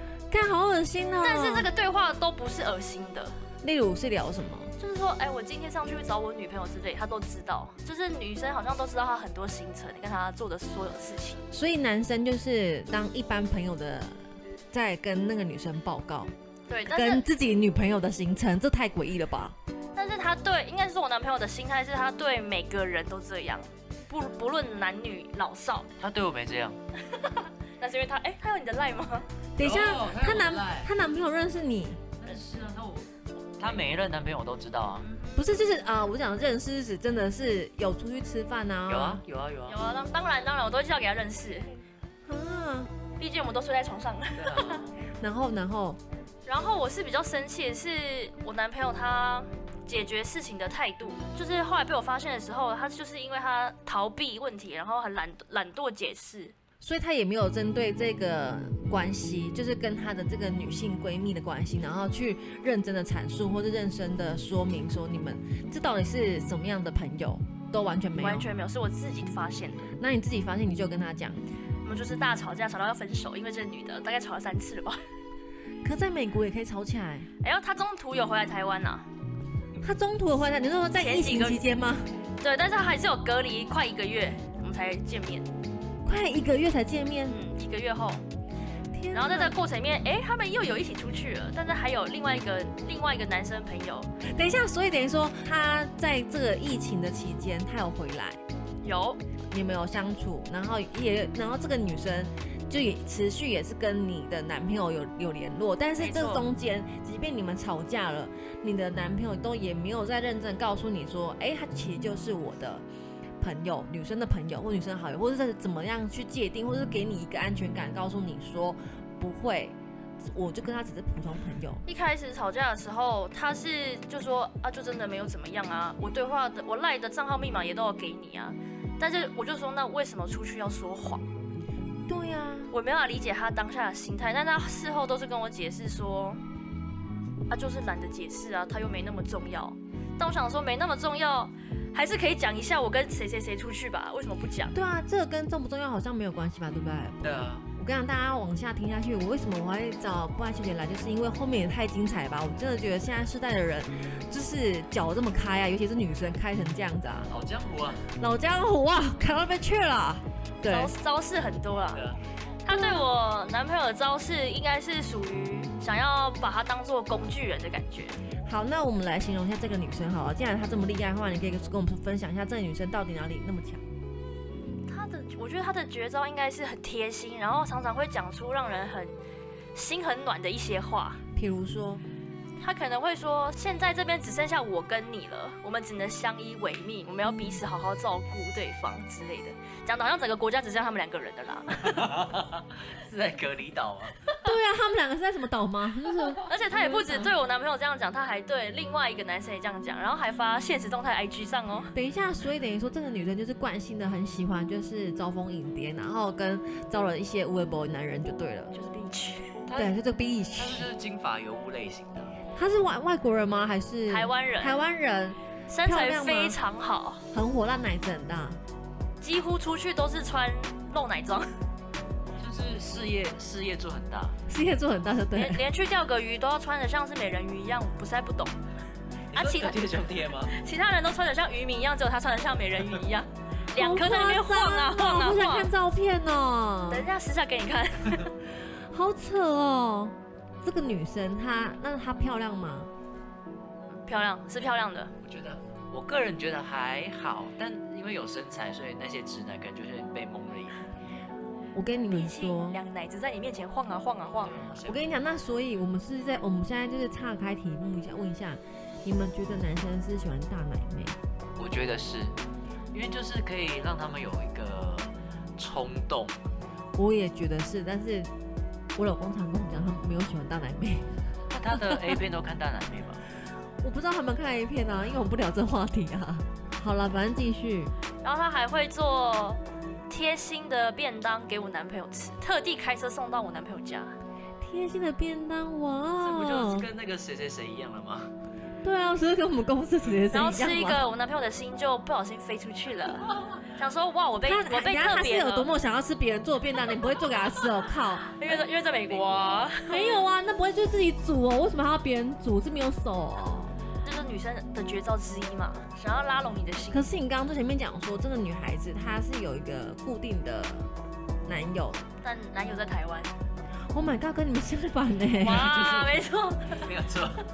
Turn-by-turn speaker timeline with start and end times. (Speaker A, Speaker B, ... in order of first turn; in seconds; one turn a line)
Speaker A: 0.3-1.7
Speaker B: 1.2-3.4
Speaker A: 3.6-4.7
Speaker B: 4.8-11.4
Speaker A: 11.5-16.3
Speaker B: 16.7-17.2
Speaker A: 16.9-19.6
Speaker B: 19.9-25.9
Speaker C: 26.0-26.8
Speaker B: 27.1-29.3
Speaker A: 29.6-32.1
Speaker C: 29.6-30.9
Speaker C: 32.2-35.0
Speaker B: 35.0-35.4
Speaker A: 35.3-39.2
Speaker C: 38.9-39.8
Speaker B: 39.7-41.7
Speaker A: 42.2-42.9
Speaker B: 43.2-44.8
Speaker C: 44.4-44.9
Speaker A: 45.2-46.0
Speaker B: 46.5-56.5
Speaker A: 56.8-68.5
Speaker B: 68.2-69.9
Speaker A: 70.0-71.4
Speaker B: 71.8-75.0
Speaker A: 75.8-77.3
Speaker B: 77.4-79.1
Speaker A: 79.8-82.1
Speaker B: 81.0-81.6
Speaker B: 82.4-85.5
Speaker A: 86.0-87.4
Speaker B: 87.3-88.2
Speaker A: 88.9-89.5
Speaker B: 89.1-94.1
Speaker A: 94.2-98.4
Speaker B: 98.8-99.2
Speaker A: 99.5-112.8
Speaker B: 106.0-106.5
Speaker A: 113.4-121.8
Speaker B: 121.8-131.2
Speaker A: 132.1-132.7
Speaker B: 132.7-136.4
Speaker B: 137.5-144.7
Speaker A: 144.7-157.3
Speaker C: 147.2-147.7
Speaker C: 157.3-158.1
Speaker A: 158.2-160.9
Speaker B: 160.7-162.1
Speaker C: 161.9-162.2
Speaker B: 162.6-168.2
Speaker A: 168.4-173.9
Speaker B: 174.9-179.2
Speaker B: 179.7-181.2
Speaker A: 181.3-182.0
Speaker B: 182.6-192.1
Speaker C: 191.8-194.2
Speaker A: 194.4-197.3
Speaker B: 196.4-201.9
Speaker A: 201.9-208.7
Speaker B: 208.7-209.6
Speaker C: 209.7-209.9
Speaker A: 209.7-210.9
Speaker C: 210.6-212.4
Speaker A: 212.5-216.6
Speaker B: 214.1-214.8
Speaker B: 215.7-217.2
Speaker A: 217.3-218.6
Speaker B: 219.2-221.5
Speaker C: 222.4-224.4
Speaker A: 224.5-225.6
Speaker B: 225.3-228.6
Speaker C: 229.3-230.5
Speaker B: 229.3-229.8
Speaker B: 230.4-235.7
Speaker A: 233.7-237.1
Speaker B: 236.9-238.3
Speaker A: 238.4-242.9
Speaker B: 243.9-245.1
Speaker C: 245.2-250.9
Speaker A: 251.7-252.8
Speaker B: 252.1-254.6
Speaker C: 254.4-255.1
Speaker A: 254.8-261.2
Speaker C: 261.6-262.4
Speaker C: 262.9-266.4
Speaker A: 266.9-268.3
Speaker A: 268.9-271.2
Speaker C: 271.5-273.2
Speaker A: 271.7-272.2
Speaker A: 273.8-277.9
Speaker B: 278.2-284.2
Speaker A: 284.6-286.9
Speaker C: 286.2-288.3
Speaker A: 288.8-291.0
Speaker B: 290.3-295.7
Speaker A: 294.4-298.3
Speaker B: 298.3-300.2
Speaker C: 299.1-299.4
Speaker A: 299.9-303.8
Speaker B: 304.0-307.1
Speaker A: 306.9-310.9
Speaker A: 311.4-312.0
Speaker B: 312.2-313.3
Speaker A: 313.9-315.7
Speaker B: 315.4-316.9
Speaker C: 315.5-317.4